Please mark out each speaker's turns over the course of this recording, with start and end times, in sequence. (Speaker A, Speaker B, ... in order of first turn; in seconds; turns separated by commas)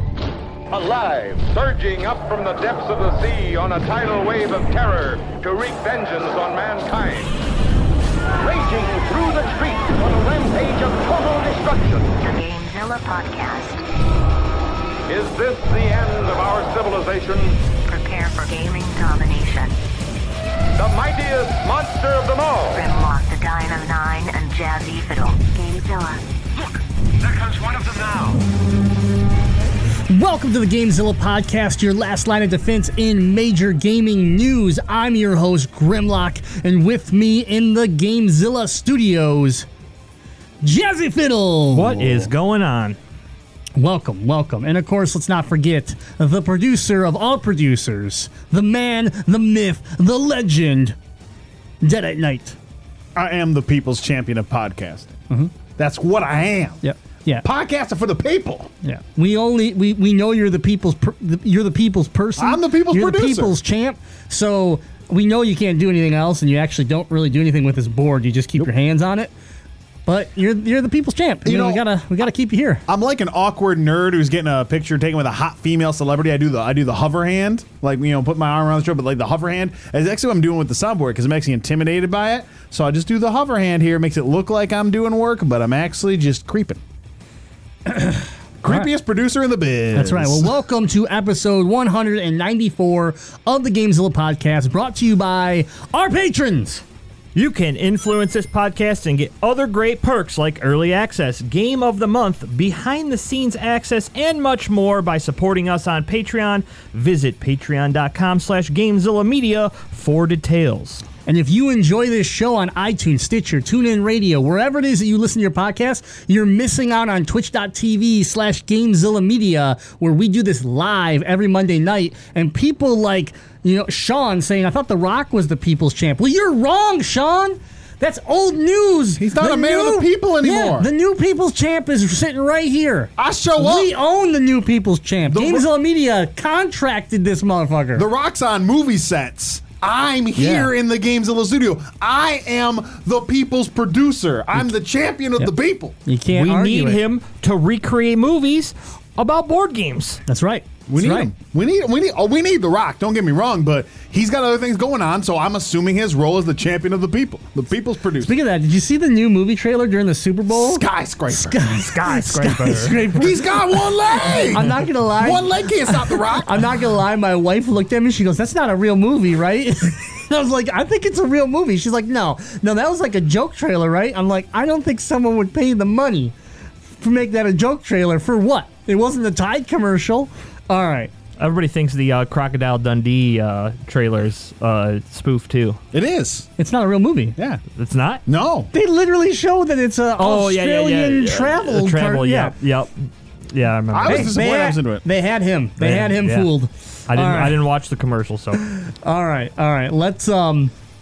Speaker A: 0.7-7.3, Speaker A: 8.4-12.1, Speaker B: 12.2-13.8, Speaker A: 15.1-17.6, Speaker B: 17.9-19.8, Speaker A: 20.8-22.8, Speaker B: 22.7-26.2, Speaker A: 27.3-28.4, Speaker C: 30.1-39.7, Speaker C: 40.6-42.3, Speaker D: 41.7-43.0, Speaker C: 43.8-51.0, Speaker C: 51.8-52.6, Speaker E: 53.1-55.2, Speaker E: 55.7-56.8, Speaker C: 56.8-57.5, Speaker E: 57.4-58.7, Speaker C: 58.8-69.3, Speaker E: 62.4-63.5, Speaker C: 70.1-72.8, Speaker E: 71.5-71.8, Speaker E: 72.9-86.8, Speaker C: 87.9-88.9, Speaker E: 88.6-90.5, Speaker C: 89.9-96.8, Speaker D: 97.3-111.0, Speaker C: 111.3-138.1, Speaker E: 129.2-130.9, Speaker E: 133.2-133.9, Speaker E: 135.3-135.7, Speaker E: 137.9-146.0, Speaker D: 140.4-140.7, Speaker C: 146.1-147.0, Speaker D: 146.3-150.2, Speaker C: 150.3-151.3, Speaker E: 150.9-158.3, Speaker C: 158.2-176.3, Speaker E: 160.5-161.6, Speaker D: 161.9-163.0, Speaker E: 162.6-166.7, Speaker C: 176.9-181.1, Speaker D: 181.4-185.8, Speaker E: 185.9-186.5, Speaker C: 186.6-187.3, Speaker E: 187.4-187.6, Speaker D: 187.8-188.2, Speaker E: 188.3-188.7, Speaker C: 188.7-192.5, Speaker D: 190.2-194.3, Speaker E: 193.9-195.0, Speaker C: 194.1-197.6, Speaker D: 195.8-196.5, Speaker D: 197.1-198.6, Speaker C: 198.7-200.7